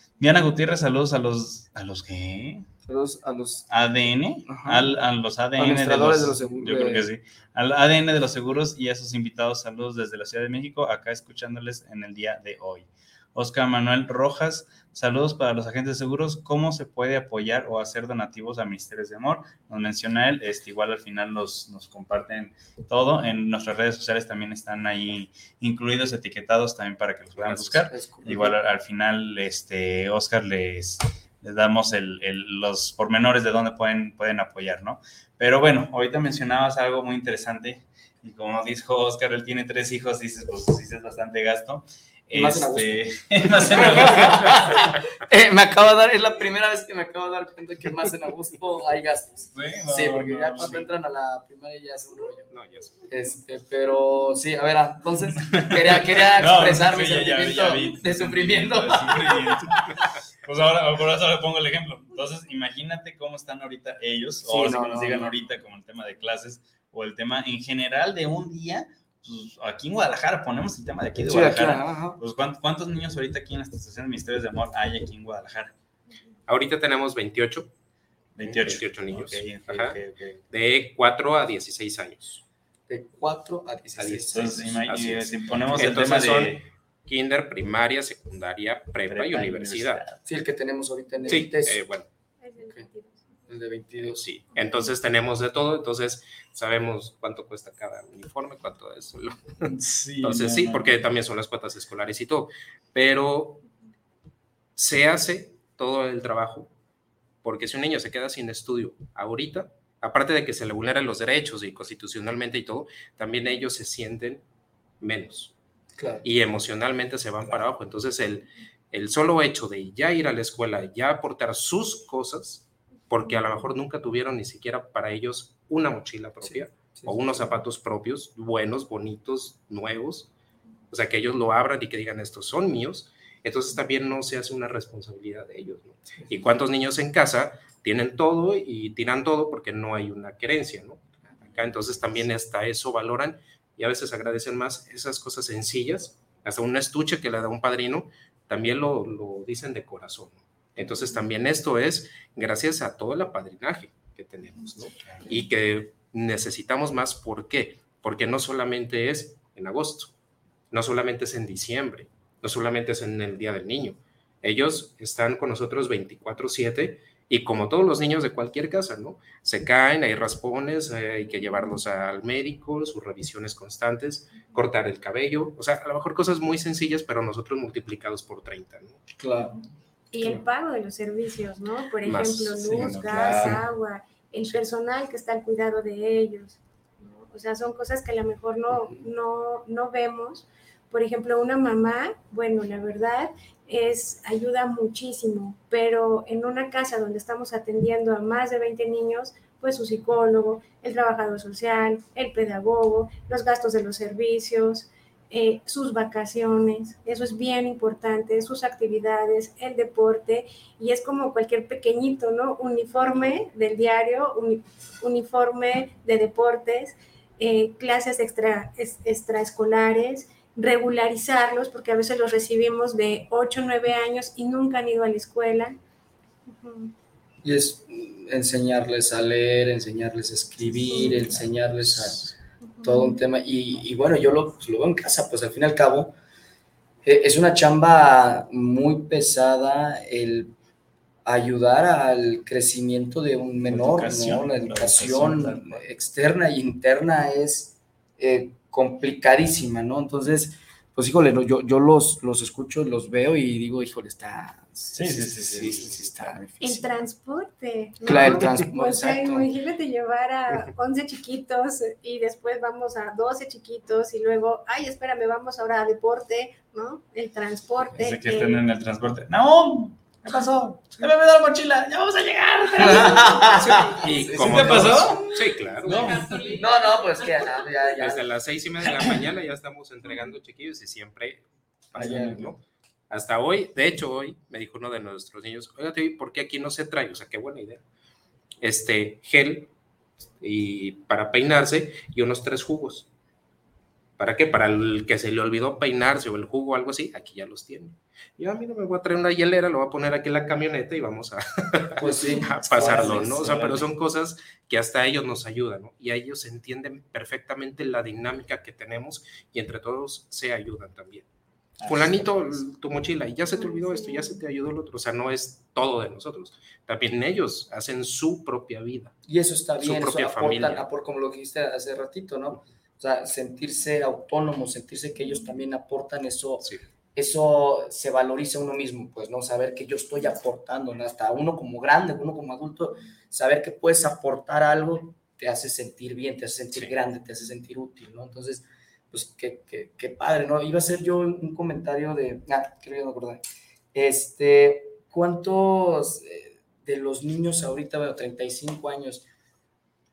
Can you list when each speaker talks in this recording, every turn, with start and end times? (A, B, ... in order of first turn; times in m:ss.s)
0:00.2-0:02.7 A
0:02.8-0:03.7 B
0:03.7-0:44.9 A
0:04.5-0:04.9 B
0:05.6-0:07.0 B
0:27.6-0:28.6 B
0:42.3-0:43.0 B
0:43.7-0:52.5 B
0:49.5-0:50.9 A
0:52.5-0:52.9 C
0:53.1-0:59.7 B
0:55.6-1:15.7 A
1:04.4-1:05.3 B
1:11.2-1:12.2 B
1:16.5-1:17.7 C
1:18.4-1:20.4 A
1:18.5-1:20.0 C
1:20.5-1:22.4 C
1:22.9-1:24.7 B
1:24.0-1:30.0 C
1:24.3-1:26.6 A
1:29.1-1:30.2 A
1:30.2-1:31.8 B
1:31.3-1:32.1 C
1:32.4-1:33.2 D
1:33.5-1:34.2 B
1:34.0-1:39.7 C
1:39.6-1:41.0 A
1:40.2-1:43.6 C
1:44.8-1:46.7 C
1:47.4-1:54.4 C
1:55.0-1:55.5 C
1:56.0-1:56.2 B
1:56.2-2:10.3 C
2:06.4-2:07.3 B
2:10.9-2:21.0 C
2:21.5-2:40.1 C
2:40.7-2:59.0 C
2:59.2-2:59.6 B
3:00.1-3:45.8 D
3:02.0-3:02.6 C
3:02.6-3:03.6 A
3:46.5-3:46.9 D
3:47.4-3:52.3 B
3:51.1-3:52.2 A
3:52.8-3:53.2 D
3:52.8-3:56.1 B
3:57.0-4:00.5 B
4:01.2-4:16.8 B
4:03.7-4:05.8 A
4:14.9-4:16.7 A
4:16.6-4:28.6 D
4:18.0-4:19.5 B
4:27.9-4:36.6 A
4:32.8-4:35.2 B
4:33.5-4:36.5 C
4:36.0-4:38.3 B
4:37.9-4:47.8 C
4:42.0-4:42.4 B
4:42.0-4:42.5 A
4:48.6-4:49.7 C
4:50.4-4:53.1 C
4:54.2-5:11.2 C
5:02.0-5:03.5 B
5:02.7-5:03.9 A
5:11.8-5:12.3 A
5:11.8-5:19.1 C
5:13.7-5:14.3 D
5:19.3-5:43.4 B
5:19.8-5:20.9 C
5:43.9-5:49.2 B